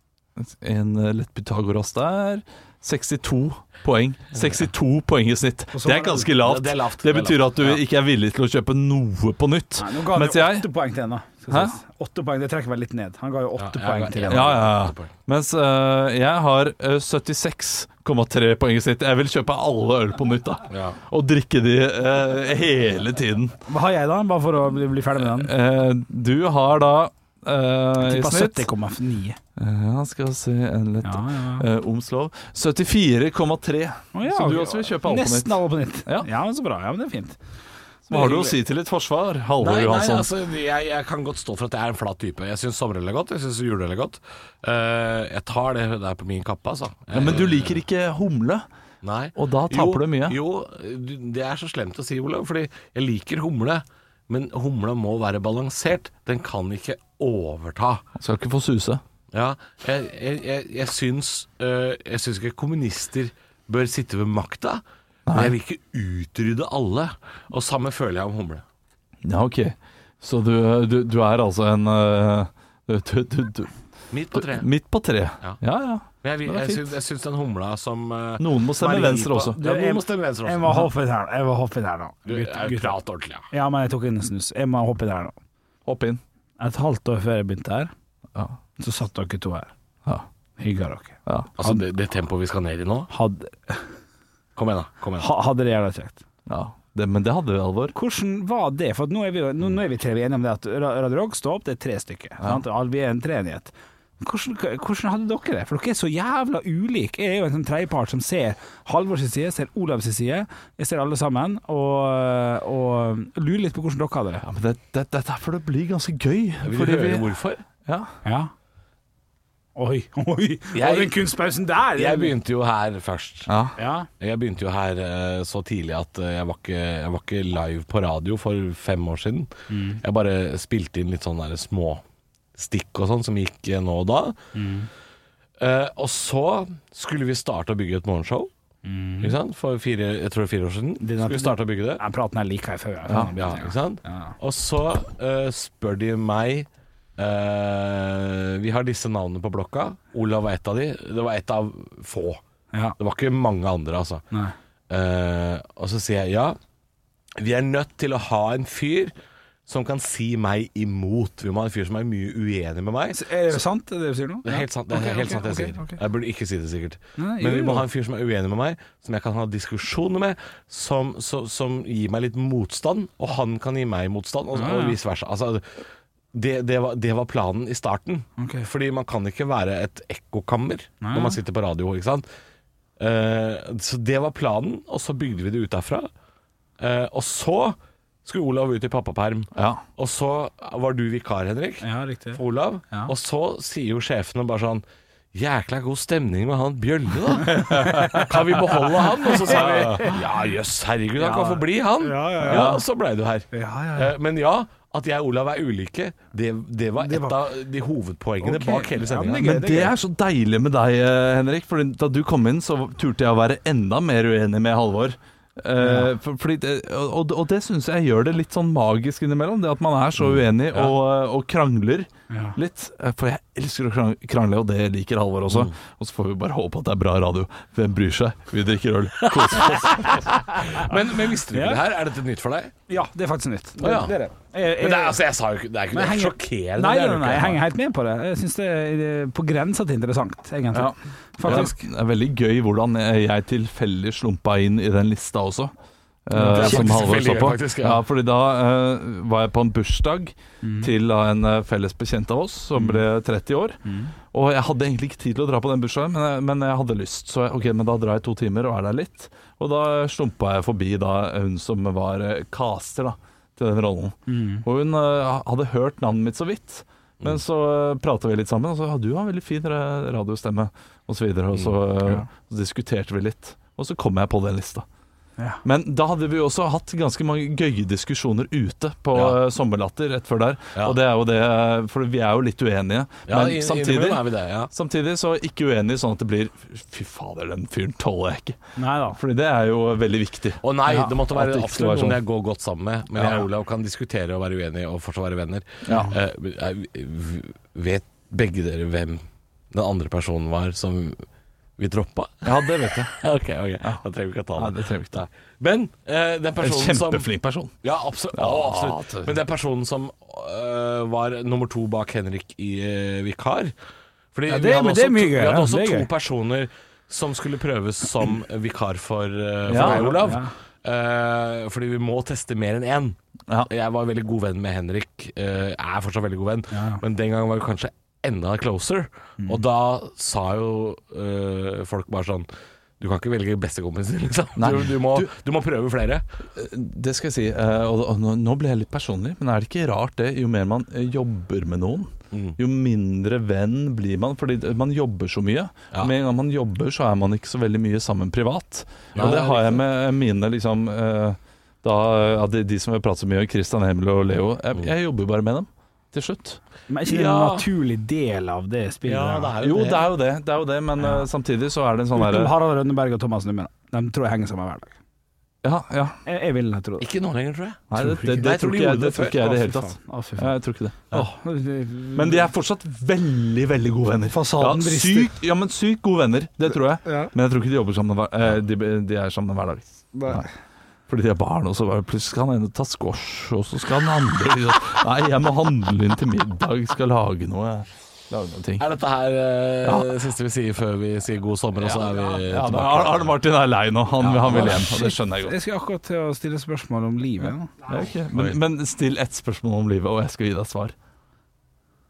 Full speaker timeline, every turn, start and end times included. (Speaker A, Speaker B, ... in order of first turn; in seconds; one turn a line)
Speaker A: 0.4-10.7
Speaker B: 5.7-6.3
Speaker C: 6.4-7.8
Speaker B: 9.8-14.6
Speaker C: 13.6-15.1
Speaker A: 14.3-23.6
Speaker C: 20.7-21.0
Speaker B: 23.7-25.5
Speaker A: 25.2-28.7
Speaker B: 28.0-29.4
Speaker A: 29.6-36.3
Speaker B: 31.0-31.7
Speaker B: 34.1-37.4
Speaker A: 38.1-40.3
Speaker B: 38.1-38.6
Speaker C: 39.6-47.8
Speaker A: 47.1-48.7
Speaker C: 49.0-58.0
Speaker A: 49.4-50.4
Speaker A: 58.2-59.0
Speaker C: 59.3-68.6
Speaker A: 65.3-65.5
Speaker A: 69.2-73.7
Speaker C: 74.1-74.7
Speaker A: 74.3-76.9
Speaker C: 76.2-80.8
Speaker A: 78.4-79.6
Speaker B: 79.6-83.0
Speaker C: 82.3-83.5
Speaker B: 83.5-85.4
Speaker A: 85.9-86.2
Speaker B: 86.6-87.9
Speaker B: 88.8-89.7
Speaker B: 90.6-91.8
Speaker A: 91.3-91.5
Speaker C: 91.6-93.1
Speaker B: 93.1-93.9
Speaker C: 94.6-95.3
Speaker B: 95.2-96.2
Speaker A: 96.5-98.0
Speaker B: 97.9-114.5
Speaker A: 114.4-117.3
Speaker C: 116.6-117.6
Speaker A: 117.8-118.1
Speaker B: 118.2-118.5
Speaker B: 119.8-122.3
Speaker C: 120.7-121.2
Speaker C: 122.0-123.5
Speaker A: 123.5-123.8
Speaker B: 123.8-124.1
Speaker C: 124.2-132.0
Speaker B: 129.7-130.0
Speaker C: 132.6-134.4
Speaker B: 134.5-134.9
Speaker C: 135.6-138.5
Speaker B: 138.8-139.3
Speaker C: 139.2-142.0
Speaker B: 141.0-144.4
Speaker C: 143.3-152.4
Speaker C: 153.0-154.2
Speaker C: 154.9-156.6
Speaker C: 157.4-159.1
Speaker C: 159.7-163.6
Speaker B: 163.1-166.0
Speaker C: 164.4-175.6
Speaker B: 167.2-167.8
Speaker B: 174.5-175.0
Speaker C: 176.3-182.3
Speaker B: 178.4-178.7
Speaker B: 181.0-181.4
Speaker C: 183.0-186.1
Speaker C: 186.8-209.4
Speaker A: 189.6-189.8
Speaker B: 191.8-193.1
Speaker B: 197.5-198.3
Speaker A: 197.8-198.2
Speaker B: 199.2-200.2
Speaker A: 199.4-200.0
Speaker B: 201.2-202.8
Speaker A: 202.5-202.8
Speaker B: 203.5-204.1
Speaker B: 207.0-207.5
Speaker B: 208.4-209.9
Speaker A: 209.4-230.3
Speaker B: 215.8-216.1
Speaker B: 222.3-222.6
Speaker C: 225.5-225.7
Speaker C: 229.2-232.7
Speaker B: 231.5-231.8
Speaker B: 232.9-235.2
Speaker C: 233.8-234.2
Speaker C: 234.7-237.6
Speaker B: 235.9-241.7
Speaker A: 240.7-245.7
Speaker A: 246.3-253.8
Speaker B: 246.3-247.2
Speaker C: 246.4-248.0
Speaker B: 250.6-250.9
Speaker B: 253.8-254.1
Speaker A: 254.3-274.9
Speaker B: 264.3-264.6
Speaker A: 275.6-288.6
Speaker C: 283.3-284.7
Speaker B: 288.8-289.2
Speaker A: 289.1-290.6
Speaker C: 290.6-301.2
Speaker B: 290.9-291.1
Speaker A: 291.3-292.2
Speaker A: 293.1-293.4
Speaker A: 295.9-296.1
Speaker C: 301.8-307.3
Speaker A: 302.4-303.2
Speaker A: 304.6-305.2
Speaker A: 306.6-307.7
Speaker C: 307.8-313.7
Speaker A: 308.3-309.4
Speaker C: 314.3-323.2
Speaker B: 314.5-316.1
Speaker A: 319.7-320.3
Speaker B: 319.7-320.5
Speaker C: 323.7-332.5
Speaker B: 326.7-327.0
Speaker C: 333.0-336.2
Speaker A: 334.6-335.3
Speaker A: 336.6-356.6
Speaker C: 349.1-349.8
Speaker B: 356.9-359.6
Speaker C: 357.1-357.7
Speaker C: 359.1-360.0
Speaker A: 359.6-362.5
Speaker B: 361.0-361.3
Speaker B: 362.1-364.9
Speaker A: 365.6-366.2
Speaker B: 366.3-367.1
Speaker C: 367.0-369.4
Speaker A: 367.9-371.2
Speaker B: 367.9-368.5
Speaker B: 369.3-370.6
Speaker B: 371.1-372.5
Speaker A: 372.1-380.5
Speaker B: 374.3-375.3
Speaker B: 377.1-377.3
Speaker B: 380.1-380.5
Speaker A: 381.1-388.8
Speaker C: 388.8-393.3
Speaker A: 389.8-390.2
Speaker A: 391.8-395.5
Speaker C: 394.2-394.9
Speaker B: 394.5-397.7
Speaker A: 397.9-400.9
Speaker C: 398.3-398.6